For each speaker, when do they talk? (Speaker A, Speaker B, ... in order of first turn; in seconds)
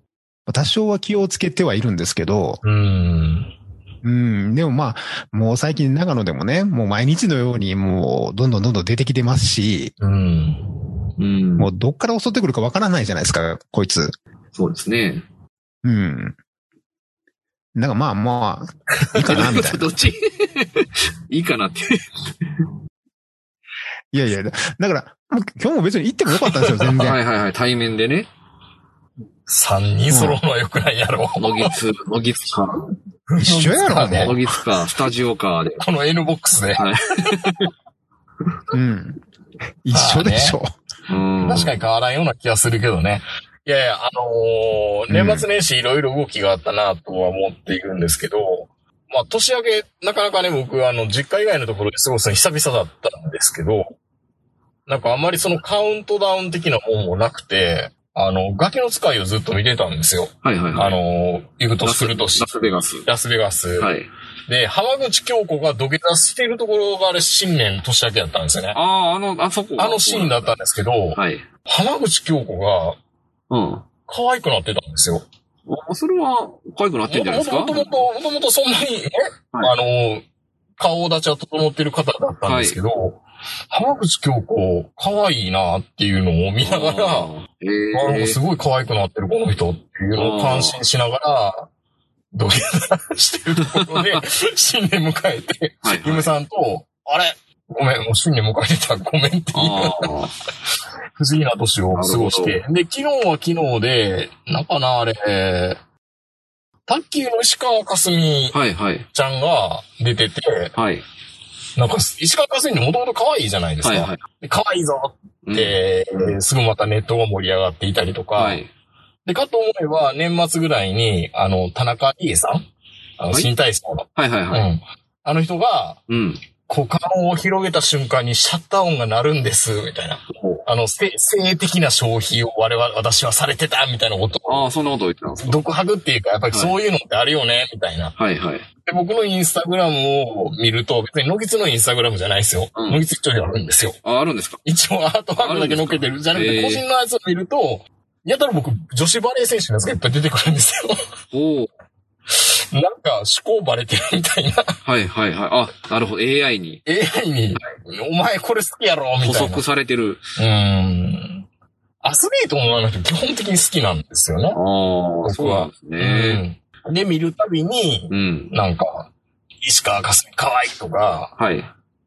Speaker A: 0.5-2.6, 4.0-9.9, 11.6-14.1, 15.8-16.4, 17.7-19.9, 24.1-27.2, 30.1-30.4, 33.4-34.5, 38.7-39.2, 39.8-40.7, 45.1-45.5
Speaker B: 2.6-3.5, 10.0-10.7, 29.5-31.7, 33.3-34.4, 35.8-37.7, 39.9-40.5, 41.4-53.9, 54.9-63.9, 64.5-68.8, 69.8-73.0, 74.1-75.2, 77.1-80.2, 80.8-87.3, 87.9-91.7, 92.3-100.1, 101.2-105.8, 106.9-108.5, 109.1-110.7, 111.8-118.6, 119.2-122.7, 123.2-126.0, 126.7-134.7, 135.4-138.1, 138.8-144.0, 144.6-151.0, 152.3-154.7, 156.8-159.6, 160.4-161.4, 162.0-164.6, 165.2-169.1, 169.6-171.3
Speaker C: 11.2-11.7, 14.5-15.2, 19.2-22.0, 26.9-28.3, 31.4-32.9, 34.0-35.8, 36.8-37.7, 41.1-41.7, 60.4-61.0, 61.8-63.1, 63.8-64.1, 68.7-70.5, 71.2-71.4, 73.5-73.8, 75.7-78.0, 82.5-82.8, 86.6-88.4, 90.2-90.8, 93.6-94.2, 95.8-96.3, 99.5-100.3, 101.9-102.6, 108.5-109.0, 110.7-111.0, 113.8-114.2, 115.4-116.3, 118.3-118.7, 124.2-124.7, 126.1-126.4, 130.3-130.6, 134.4-135.6, 138.2-138.7, 142.7-143.0, 144.0-144.6, 145.4-146.8, 151.3-151.7, 154.8-156.8, 159.2-160.2, 164.5-166.4, 168.1-168.5, 171.4-171.7